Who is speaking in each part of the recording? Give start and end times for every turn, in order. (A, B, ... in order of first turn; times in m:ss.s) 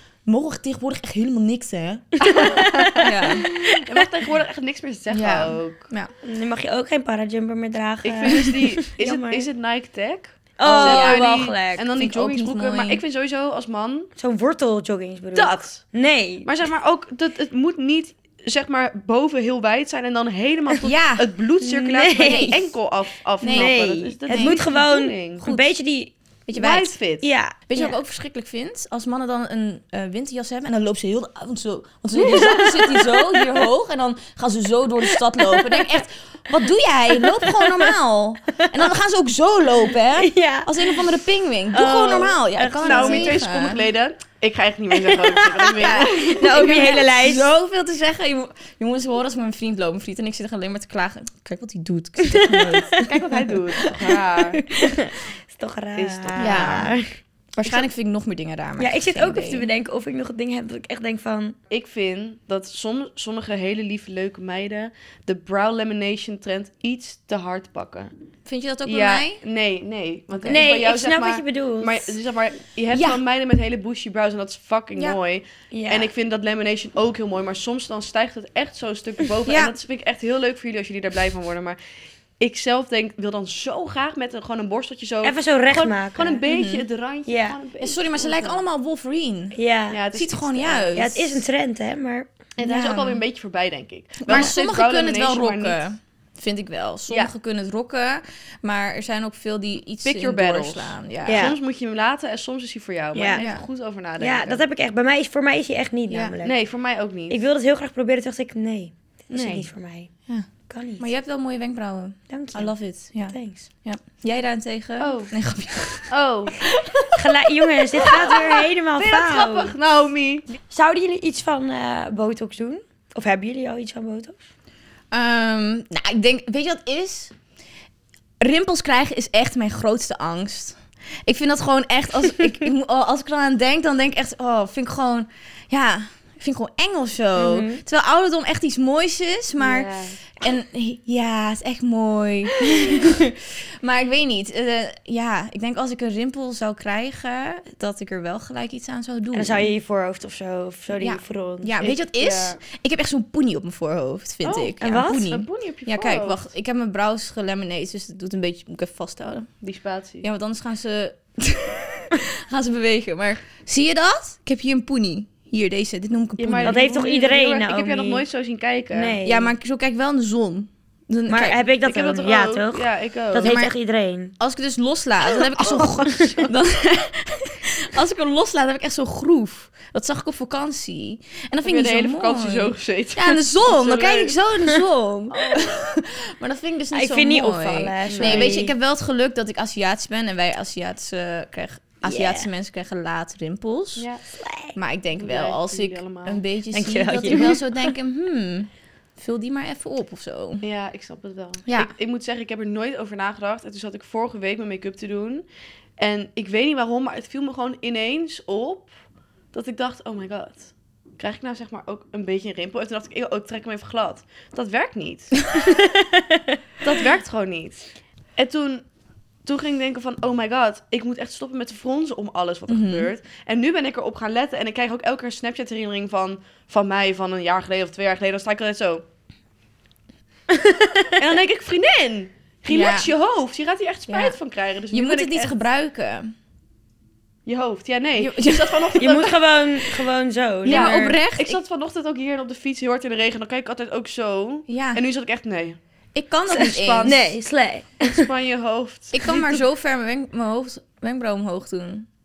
0:00.3-0:02.2 A
0:02.2-0:03.8 B
0:02.3-0:05.8 C
0:03.0-0:03.5 A
0:05.1-0:06.1 A
0:06.2-0:09.5 B
0:08.0-0:14.1 C
0:10.6-0:11.8 B
0:10.6-0:13.0 A
0:14.2-0:16.5 B
0:15.4-0:15.8 C
0:16.4-0:25.5 C
0:20.8-0:21.3 A
0:21.6-0:22.5 B
0:22.2-0:22.7 A
0:23.4-0:23.8 A
0:23.4-0:26.1 B
0:24.3-0:24.6 A
0:26.5-0:27.0 A
0:26.6-0:27.3 C
0:27.2-0:27.9 B
0:27.7-0:43.8 A
0:32.2-0:33.5 B
0:35.1-0:35.9 B
0:37.2-0:37.9 B
0:40.1-0:41.1 B
0:41.7-0:43.4 B
0:42.8-0:47.0 C
0:45.0-0:47.5 B
0:45.8-0:54.9 A
0:52.2-0:53.1 B
0:53.0-0:54.6 C
0:54.8-0:57.1 B
0:56.0-0:57.0 C
0:56.4-0:56.9 A
0:57.6-0:59.7 A
0:58.8-1:01.6 B
1:01.7-1:08.1 C
1:08.5-1:09.4 A
1:08.9-1:21.8 C
1:10.3-1:10.7 A
1:10.5-1:12.1 B
1:12.9-1:13.2 A
1:15.7-1:16.1 B
1:19.5-1:19.8 A
1:22.4-1:28.6 C
1:25.2-1:26.4 B
1:26.5-1:26.9 A
1:27.3-1:27.6 B
1:27.8-1:29.6 A
1:29.6-1:30.0 B
1:29.9-1:31.0 C
1:30.1-1:31.4 A
1:31.0-1:32.3 B
1:32.6-1:35.8 C
1:32.6-1:33.2 A
1:34.2-1:41.5 A
1:40.0-1:44.6 C
1:41.3-1:41.6 B
1:43.1-1:43.4 B
1:43.4-1:43.6 A
1:44.2-1:46.6 B
1:46.1-1:46.3 A
1:46.4-1:47.4 C
1:47.3-1:50.1 B
1:49.3-1:49.7 C
1:50.7-1:51.1 B
1:51.0-1:56.1 A
1:52.3-1:52.7 B
1:53.3-1:53.7 B
1:55.0-1:55.4 C
1:56.1-1:56.7 C
1:57.1-1:59.7 B
1:59.0-2:00.4 C
2:00.7-2:04.4 B
2:05.1-2:07.3 A
2:08.4-2:29.7 A
2:17.4-2:17.8 B
2:19.6-2:20.2 C
2:29.3-2:31.7 B
2:31.0-2:39.5 A
2:31.8-2:32.6 C
2:34.4-2:36.5 C
2:34.8-2:35.3 B
2:39.6-2:40.3 C
2:40.2-2:46.8 A
2:46.4-2:49.2 C
2:46.6-2:48.2 B
2:48.9-2:49.5 B
2:49.2-2:51.6 A
2:51.3-2:54.3 B
2:51.8-2:53.6 C
2:53.4-2:53.7 A
2:54.4-3:14.1 A
2:55.6-2:56.5 B
3:01.6-3:04.4 C
3:05.3-3:05.7 B
3:06.9-3:08.7 B
3:08.1-3:08.6 C
3:12.0-3:12.5 B
3:14.4-3:14.7 B
3:14.8-3:20.6 A
3:15.2-3:16.4 C
3:16.7-3:17.6 B
3:20.6-3:25.5 C
3:21.7-3:21.9 A
3:26.0-3:28.9 C
3:29.5-3:35.7 C
3:35.6-3:36.5 B
3:36.8-3:38.8 C
3:39.4-3:49.0 C
3:42.7-3:43.1 A
3:50.5-3:51.2 B
3:51.2-3:55.6 C
3:52.7-3:53.1 A
3:54.1-3:54.4 A
3:54.9-3:56.3 A
3:57.5-4:00.0 C
3:58.2-3:58.9 A
3:58.9-4:01.2 B
4:00.7-4:01.6 A
4:00.7-4:05.8 C
4:04.7-4:05.0 A
4:06.2-4:07.1 A
4:06.5-4:07.4 C
4:07.0-4:08.3 B
4:08.0-4:09.6 C
4:09.1-4:12.1 A